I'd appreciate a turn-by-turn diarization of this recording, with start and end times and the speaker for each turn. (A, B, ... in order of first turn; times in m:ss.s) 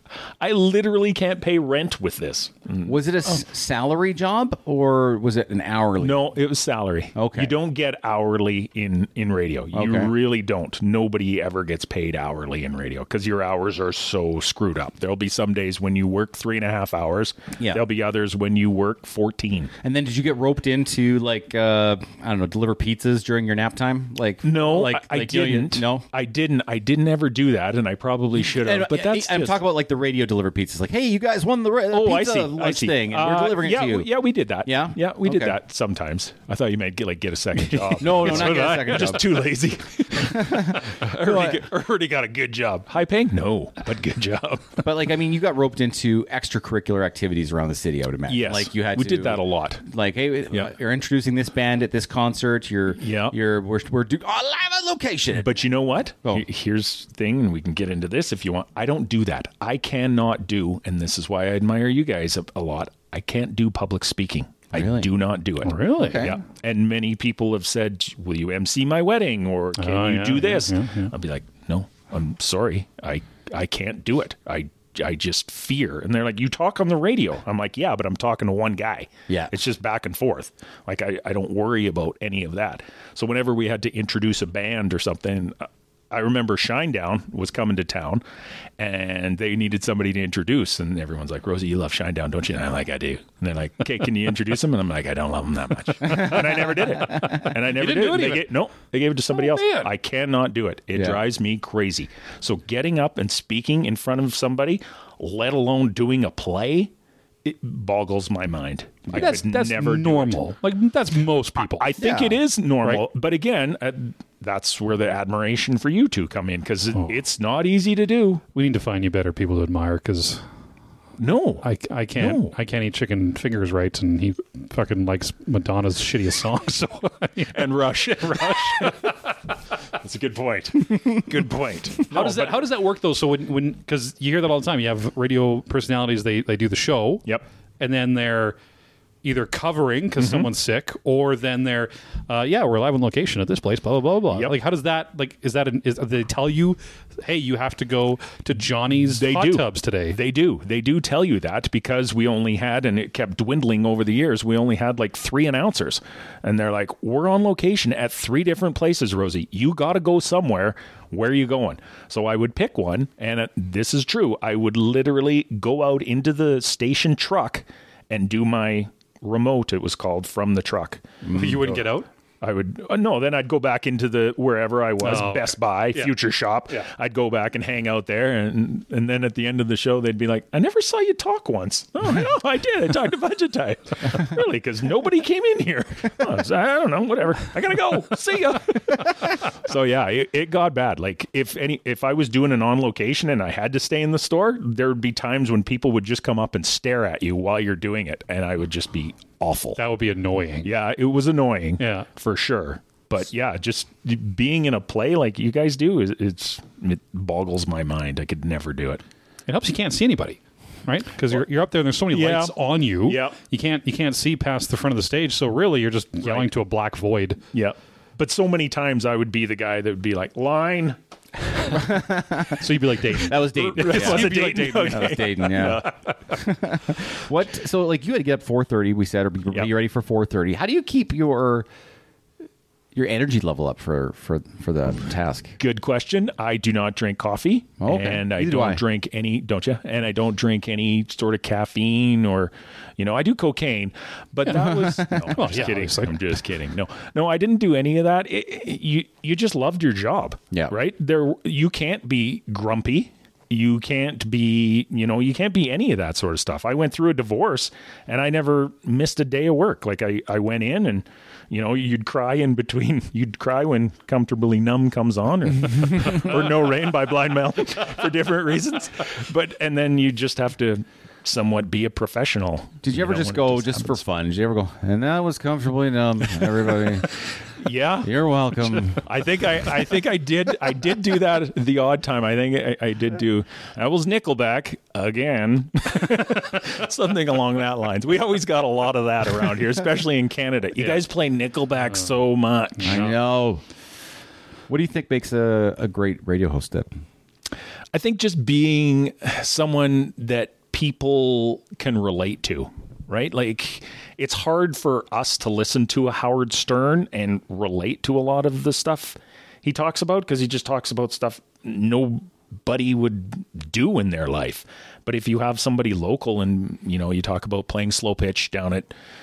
0:00.4-0:03.3 A
0:02.8-0:06.3 B
0:06.0-0:19.7 A
0:07.2-0:07.5 B
0:09.7-0:10.1 B
0:19.8-0:26.0 B
0:24.4-0:29.6 A
0:28.4-0:34.1 B
0:31.9-0:44.8 A
0:34.6-0:35.6 B
0:37.9-0:39.5 B
0:40.1-0:41.6 B
0:44.8-0:55.5 B
0:48.3-0:49.8 A
0:53.0-0:53.4 A
0:55.4-1:28.2 A
1:04.7-1:05.1 B
1:05.6-1:06.3 C
1:06.0-1:06.4 B
1:09.8-1:11.1 C
1:28.8-1:46.9 A
1:37.1-1:38.5 C
1:39.3-1:39.9 C
1:40.9-1:41.2 B
1:47.4-1:50.4 A
1:49.1-1:51.9 C
1:51.6-1:58.4 A
1:52.0-1:52.4 B
1:58.5-2:00.4 C
2:01.2-2:01.6 A
2:01.6-2:07.7 C
2:02.2-2:02.5 A
2:07.5-2:09.4 A
2:09.9-2:12.7 A
2:12.1-2:17.2 C
2:17.8-2:18.6 C
2:19.2-2:30.2 C
2:20.2-2:20.5 A
2:29.1-2:51.0 A
2:51.2-2:51.8 B
2:51.3-2:52.1 C
2:52.4-3:19.8 A
2:55.0-2:56.1 C
3:19.8-3:20.7 C
3:20.6-3:29.0 A
3:21.8-3:22.1 C
3:29.5-3:37.4 C
3:32.1-3:32.5 A
3:33.0-3:33.4 A
3:37.5-3:41.0 A
3:41.7-3:51.7 B
3:42.5-3:45.2 C
3:43.5-3:46.1 A
3:52.9-3:55.6 B
3:55.6-4:34.0 A
3:57.8-3:58.8 B
4:04.5-4:05.4 B
4:04.5-4:06.2 C
4:32.8-4:37.1 B
4:37.6-4:53.2 A
4:38.0-4:39.0 B
4:52.8-4:53.6 B
4:54.7-4:56.9 B
4:57.9-5:18.9 A